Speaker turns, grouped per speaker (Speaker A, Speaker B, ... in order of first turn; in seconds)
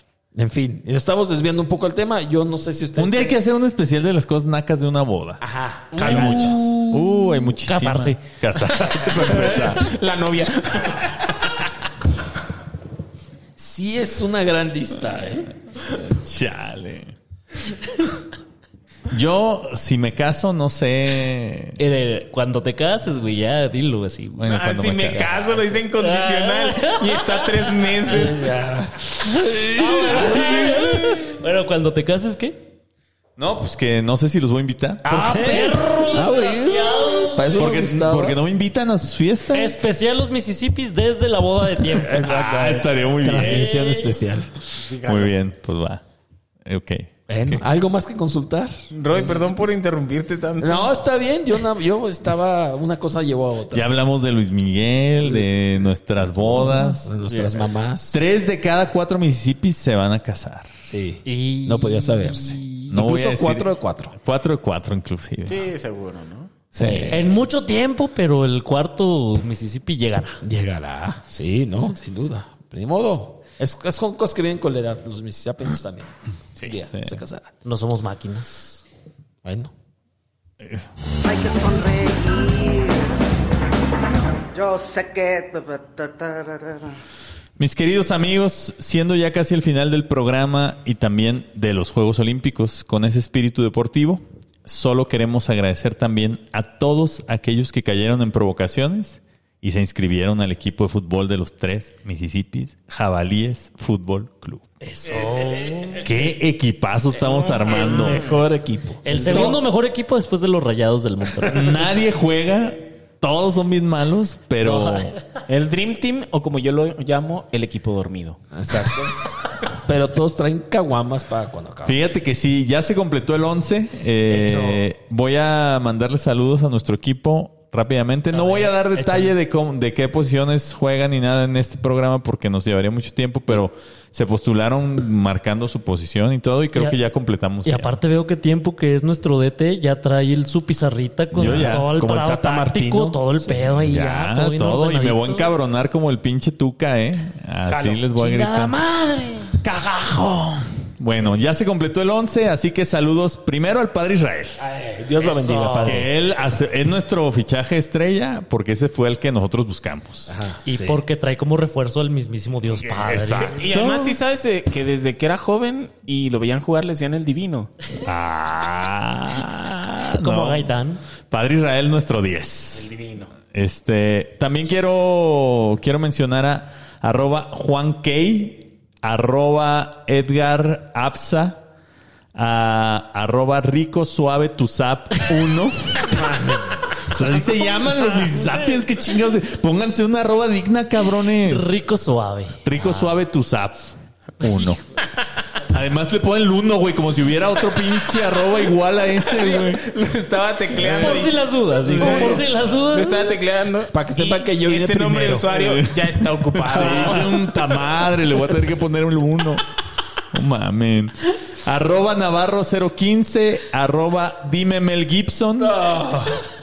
Speaker A: 0.3-3.4, 5.4-6.7, 13.6-15.5, 28.1-31.3, 35.0-38.4, 42.0-44.5, 47.3-49.7, 50.6-53.9, 55.2-55.5, 56.2-58.3, 60.9-64.2, 66.7-67.3, 70.4-77.5, 79.4-79.7, 107.7-109.6, 118.5-119.2, 119.8-122.0, 141.4-143.6, 154.6-156.1, 160.3-161.0, 186.2-186.7, 203.9-205.5, 206.9-207.3, 215.6-216.4
Speaker B: 3.0-5.4, 6.0-9.9, 15.9-17.1, 19.1-21.8, 24.4-25.3, 33.4-35.6, 37.5-39.7, 42.1-43.7, 45.0-46.0, 46.6-47.6, 53.7-57.1, 58.1-60.7, 62.9-65.7, 66.8-67.1, 87.6-104.7, 106.0-108.2, 109.3-109.6, 111.4-115.1, 121.8-137.9, 141.3-141.9, 143.7-148.7, 149.6-154.6, 155.8-160.4, 162.8-164.2, 168.0-170.7, 171.3-172.9, 173.5-181.6, 182.3-186.3, 186.9-191.7, 192.6-194.8, 195.7-199.8, 200.7-202.5, 205.5-209.6, 210.3-215.8
Speaker C: 6.0-9.0, 21.8-24.6, 25.8-27.4, 29.2-32.6, 35.0-37.7, 39.5-42.3, 43.3-44.1, 61.2-62.9, 67.1-70.4, 77.6-78.8, 104.8-106.0, 109.0-111.7, 114.6-115.2, 124.3-124.8, 128.3-129.3, 137.6-145.5, 147.7-149.6, 155.2-156.0, 160.6-163.5, 170.2-171.0, 191.4-193.2, 194.4-194.7, 200.9-203.4
Speaker D: 6.0-6.3, 9.0-11.2, 24.5-28.5, 44.8-45.4, 48.9-51.0, 65.4-66.5, 107.2-108.4, 115.5-118.4, 163.3-167.7, 172.7-173.3, 199.2-201.4, 201.9-207.4
Speaker E: 81.2-83.2, 84.5-87.0